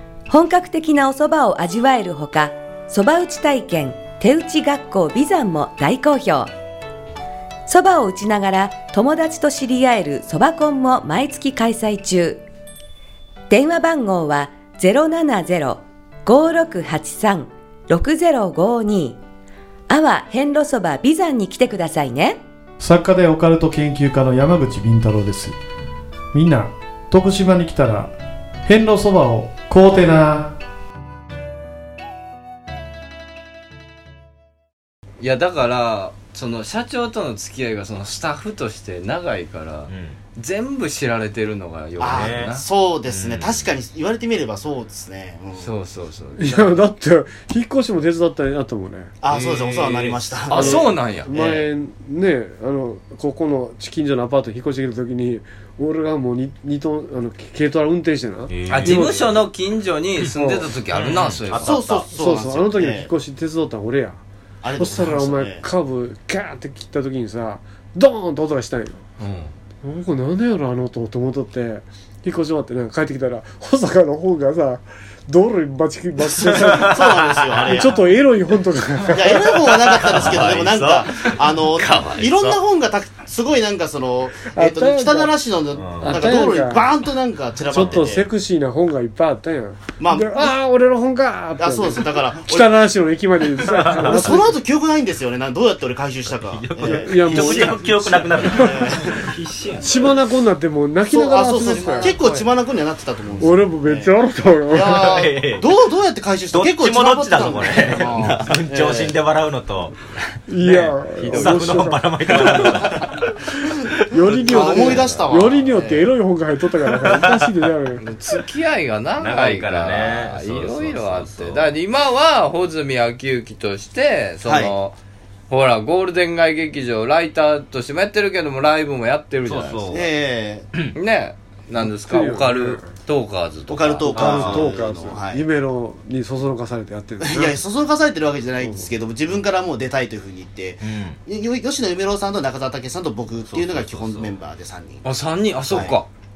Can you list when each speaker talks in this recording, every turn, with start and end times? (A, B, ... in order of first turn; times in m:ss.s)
0:00.3-0:06.5 A
0:07.7-0:12.4 A
0:13.5-0:19.2 A
0:19.9-0:22.4 A
0:22.8-0:25.6 B
0:26.3-0:28.1 B
0:28.6-0:30.5 B
0:35.2-0:42.6 C
0:39.9-0:40.2 D
0:42.0-0:45.7 E
0:42.0-0:42.5 D
0:43.1-0:43.7 D
0:45.6-0:46.8 C
0:46.4-0:49.1 F
0:49.2-0:51.5 E
0:49.3-0:51.6 C
0:50.5-0:59.4 F
0:58.5-0:59.1 D
0:58.7-1:01.8 C
1:00.3-1:00.7 F
1:00.9-1:02.1 D
1:01.5-1:03.1 E
1:02.1-1:04.2 F
1:04.6-1:05.6 E
1:04.8-1:09.0 F
1:09.2-1:09.5 C
1:09.8-1:17.0 F
1:16.6-1:18.0 E
1:16.7-1:17.6 D
1:17.6-1:19.6 F
1:19.1-1:28.3 E
1:19.8-1:22.6 C
1:20.1-1:20.8 D
1:24.5-1:25.4 F
1:25.7-1:26.4 D
1:26.0-1:26.9 F
1:27.7-1:34.6 F
1:30.0-1:30.5 E
1:31.6-1:32.9 E
1:33.7-1:34.3 D
1:34.0-1:39.3 E
1:36.3-1:39.2 D
1:36.8-1:38.0 F
1:38.4-1:40.2 C
1:39.8-1:42.2 F
1:41.1-1:44.1 E
1:41.6-1:42.5 C
1:43.4-1:45.2 F
1:44.7-1:49.1 E
1:44.8-1:45.7 D
1:46.5-1:50.0 D
1:47.4-1:48.6 C
1:50.5-1:52.1 F
1:50.6-1:53.2 C
1:51.2-1:55.2 D
1:54.1-1:58.0 F
1:54.4-1:55.9 E
1:54.9-1:55.2 C
1:57.0-1:57.4 D
1:58.0-2:05.0 C
1:59.2-2:01.7 D
2:04.4-2:04.7 E
2:05.5-2:09.9 C
2:09.4-2:10.2 D
2:09.9-2:10.7 E
2:10.9-2:14.1 C
2:11.8-2:12.9 F
2:13.7-2:15.4 E
2:14.1-2:17.6 F
2:14.1-2:14.7 D
2:17.2-2:25.0 E
2:18.6-2:18.9 F
2:20.8-2:21.2 D
2:23.5-2:24.4 D
2:25.0-2:26.1 C
2:25.7-2:26.0 E